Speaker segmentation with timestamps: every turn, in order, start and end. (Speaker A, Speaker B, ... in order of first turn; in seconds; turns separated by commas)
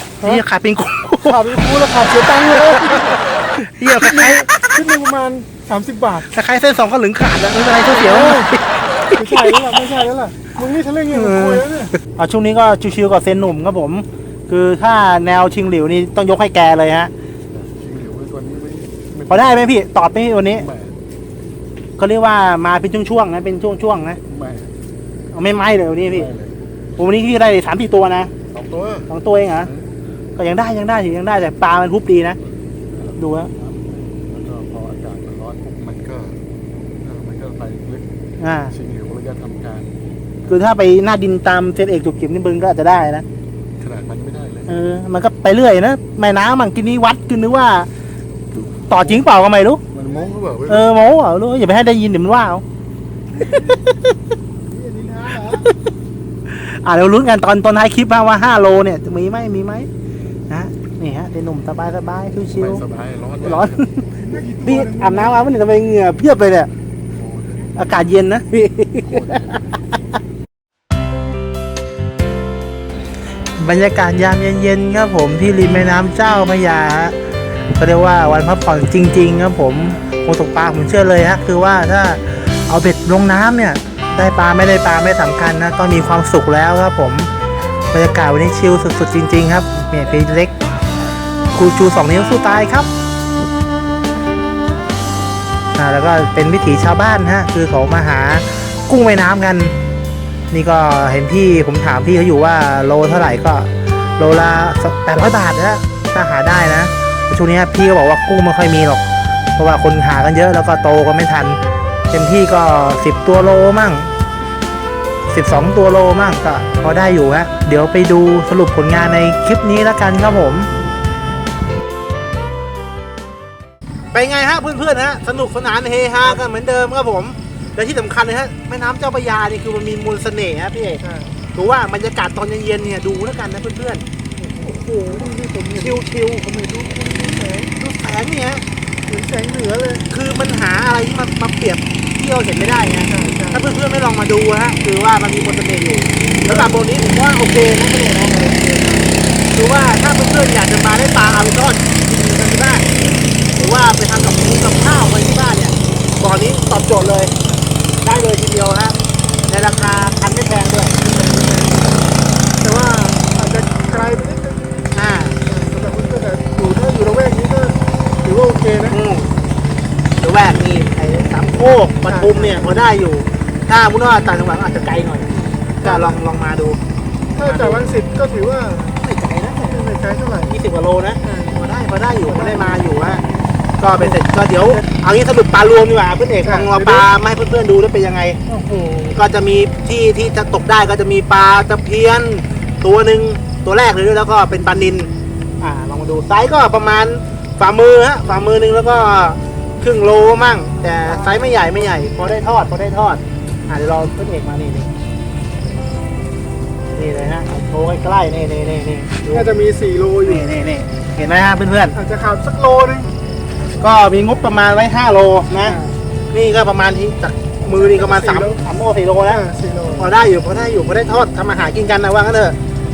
Speaker A: 0.2-1.6, Speaker B: 1.2-3.2, Speaker A: 2.4-4.8, Speaker B: 3.9-6.3, Speaker A: 6.2-9.7, Speaker B: 7.8-8.5, Speaker B: 9.2-11.9, Speaker A: 11.1-17.1, Speaker C: 17.5-19.7, Speaker A: 19.3-20.7, Speaker C: 20.5-21.0, Speaker A: 22.0-24.2, Speaker C: 24.3-24.7, Speaker A: 25.3-26.3, Speaker C: 26.1-26.6, Speaker A: 27.0-28.3, Speaker C: 28.5-29.9, Speaker A: 29.1-29.7, Speaker A: 30.4-32.4, Speaker C: 32.9-36.4, Speaker A: 33.2-33.5, Speaker C: 37.0-38.1, Speaker A: 38.4-38.8, Speaker C: 38.7-40.6, Speaker A: 40.5-43.2, Speaker C: 43.8-44.8, Speaker A: 44.7-47.9, Speaker A: 48.6-49.8, Speaker C: 49.9-50.9, Speaker A: 50.7-52.6, Speaker B: 53.3-53.8, Speaker B: 54.7-55.7, Speaker A: 56.5-59.9, Speaker A: 60.5-62.9, Speaker C: 62.5-63.8, Speaker A: 63.4-66.7, Speaker B: 64.2-65.4, Speaker C: 67.2-67.8, Speaker A: 67.8-69.6, Speaker C: 69.0-69.9, Speaker A: 73.5-77.2, Speaker A: 77.8-87.3, Speaker A: 87.9-90.5, Speaker A: 91.5-92.9, Speaker A: 95.8-99.8, Speaker A: 100.5-109.0, Speaker A: 109.6-111.6, Speaker A: 112.1-114.1, Speaker A: 115.3-120.7, Speaker A: 124.1-131.0, Speaker B: 131.0-131.4, Speaker A: 131.5-134.0, Speaker B: 134.4-136.0, Speaker A: 135.7-136.9, Speaker B: 136.7-137.7, Speaker A: 137.8-138.6, Speaker B: 139.1-140.1, Speaker A: 140.1-148.8, Speaker B: 143.0-143.6, Speaker B: 146.4-146.7, Speaker B: 148.4-149.1, Speaker A: 149.5-152.9, Speaker A: 153.6-157.3, Speaker B: 157.5-157.8, Speaker A: 158.0-159.0, Speaker A: 159.5-160.9, Speaker B: 161.0-162.0, Speaker B: 162.6-164.8, Speaker A: 164.9-165.4, Speaker B: 165.4-169.0, Speaker A: 168.9-169.3, Speaker A: 170.2-175.3, Speaker B: 172.1-172.7, Speaker B: 175.3-176.2, Speaker A: 175.8-176.8, Speaker B: 177.3-179.0, Speaker A: 177.4-177.9, Speaker A: 178.9-179.8, Speaker B: 179.6-180.5, Speaker A: 180.5-183.2, Speaker B: 181.2-181.6, Speaker B: 182.3-182.8, Speaker A: 183.8-188.4, Speaker B: 183.9-184.8, Speaker B: 186.4-187.1, Speaker B: 188.5-189.2, Speaker A: 189.1-195.1, Speaker A: 195.6-204.9, Speaker B: 201.1-201.9, Speaker A: 206.9-209.5, Speaker B: 209.2-210.5, Speaker A: 210.2-212.0, Speaker B: 211.9-213.1, Speaker A: 213.8-215.8, Speaker B: 215.6-215.9, Speaker A: 216.3-219.4, Speaker B: 217.7-218.6, Speaker B: 219.3-220.1, Speaker A: 220.0-222.6